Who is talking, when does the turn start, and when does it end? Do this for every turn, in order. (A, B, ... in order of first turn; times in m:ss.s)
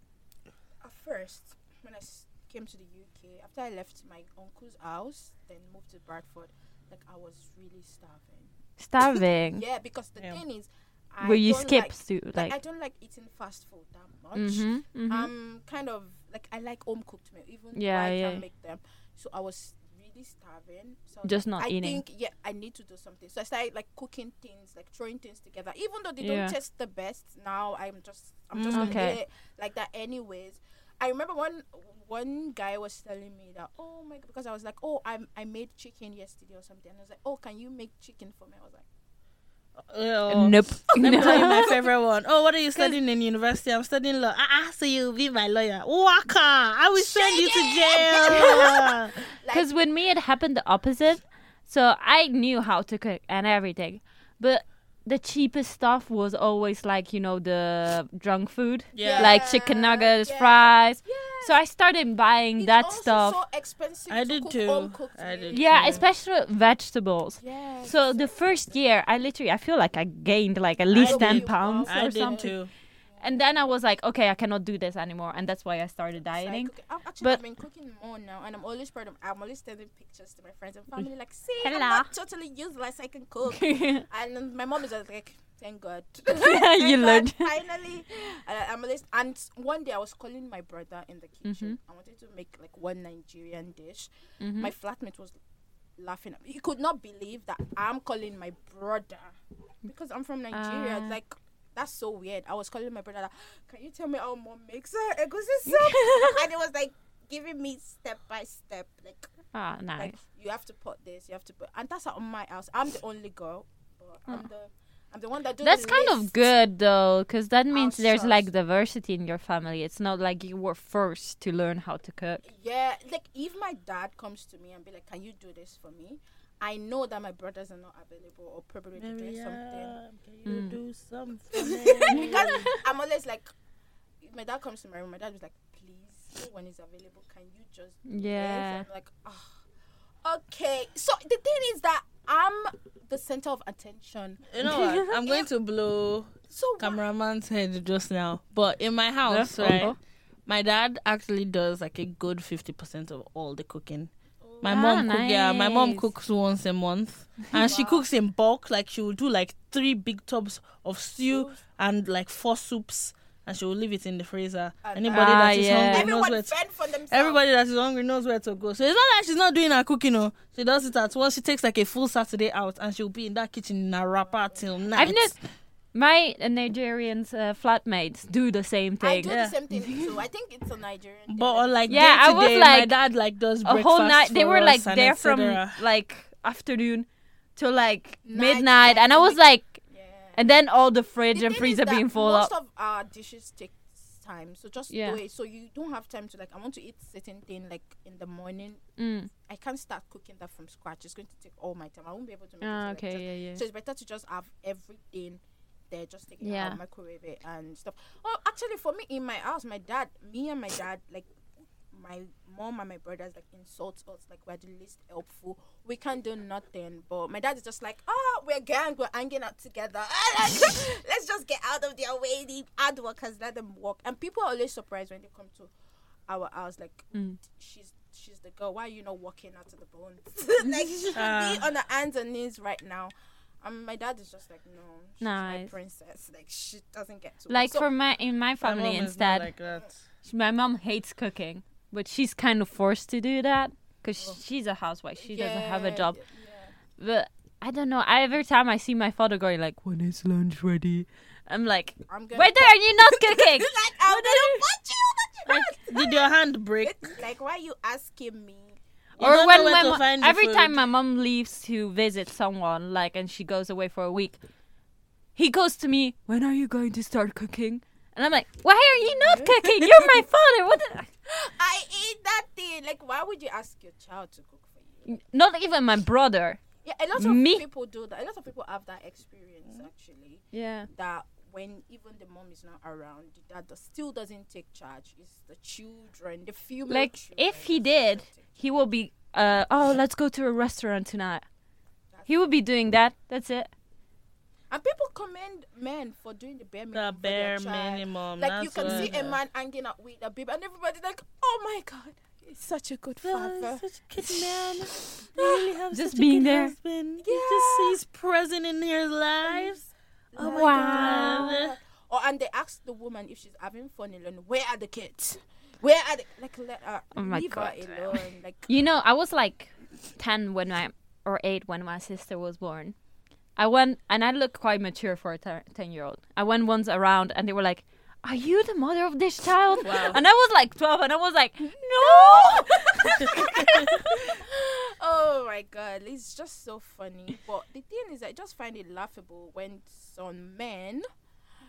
0:00.8-0:08.5 A
0:08.8-0:09.6 B
0:09.5-0:38.8 A
0:11.2-0:12.5 B
0:14.4-0:15.3 B
0:17.7-0:18.4 B
0:21.2-0:22.0 B
0:26.2-0:26.5 B
0:28.5-0:29.0 C
0:28.7-0:29.2 B
0:39.8-0:49.1 C
0:40.3-0:41.7 B
0:41.0-0:41.8 A
0:46.9-0:49.7 A
0:48.4-0:48.7 B
0:49.5-1:03.4 B
0:58.9-0:59.4 C
0:59.0-1:01.6 A
1:02.6-1:06.1 A
1:04.1-1:06.0 C
1:05.5-1:12.5 B
1:07.4-1:08.8 A
1:10.9-1:12.7 C
1:10.9-1:12.6 A
1:13.1-1:13.6 A
1:13.2-1:17.4 B
1:16.2-1:35.4 A
1:21.6-1:22.1 B
1:23.5-1:24.0 B
1:26.3-1:27.5 B
1:31.4-1:31.8 B
1:34.4-1:34.7 B
1:36.0-1:49.3 A
1:40.5-1:41.2 B
1:45.6-1:46.4 B
1:49.5-1:50.2 B
1:50.0-1:56.5 A
1:55.6-2:02.4 B
1:57.7-1:58.5 A
2:02.4-2:10.0 A
2:09.0-2:12.7 C
2:10.4-2:10.8 B
2:11.5-2:13.5 A
2:12.1-2:12.8 B
2:14.2-2:19.6 A
2:18.1-2:18.8 B
2:20.2-2:25.5 A
2:24.5-2:29.9 C
2:24.6-2:25.1 B
2:26.5-2:27.0 A
2:29.3-2:30.0 B
2:30.4-2:46.5 C
2:34.4-2:35.0 A
2:34.7-2:36.1 B
2:37.5-2:38.0 A
2:41.2-2:41.6 A
2:44.8-2:47.4 A
2:45.1-2:46.1 B
2:47.1-2:55.3 C
2:54.2-2:55.1 A
2:54.9-2:55.4 B
2:55.9-3:00.0 B
2:59.0-3:02.4 A
2:59.2-2:59.6 C
3:01.3-3:05.8 C
3:01.9-3:02.9 B
3:03.6-3:09.8 B
3:08.2-3:10.6 A
3:10.4-3:12.5 B
3:11.3-3:18.8 A
3:14.9-3:15.2 B
3:19.0-3:19.3 B
3:19.4-3:25.4 A
3:22.6-3:23.6 B
3:25.9-3:31.3 A
3:26.4-3:26.8 B
3:31.9-3:45.7 A
3:46.3-3:57.8 A
3:51.1-3:51.6 C
3:55.2-3:55.7 B
3:57.5-3:59.5 B
3:58.6-4:00.0 C
4:00.2-4:06.2 B
4:05.2-4:06.7 A
4:07.0-4:14.6 B
4:12.1-4:18.8 A
4:15.5-4:17.1 C
4:19.2-4:20.8 C
4:19.2-4:24.4 B
4:19.3-4:20.0 A
4:25.4-4:31.1 B
4:29.0-4:30.1 A
4:31.2-4:35.1 A
4:35.1-4:36.6 B
4:36.8-4:48.6 A
4:37.2-4:37.6 B
4:40.5-4:40.9 B
4:46.9-4:51.4 B
4:52.1-4:52.4 A
4:52.3-4:53.7 B
4:54.7-5:04.0 A
4:56.9-4:59.4 C
4:58.8-4:59.1 B
5:03.2-5:09.8 C
5:05.4-5:05.6 A
5:05.9-5:06.7 B
5:07.2-5:08.0 A
5:09.4-5:09.8 A
5:10.3-5:18.7 A
5:10.4-5:11.8 C
5:10.4-5:11.5 B
5:17.1-5:22.9 B
5:23.6-5:34.3 B
5:29.8-5:30.2 A
5:29.8-5:30.2 C
5:31.6-5:41.1 A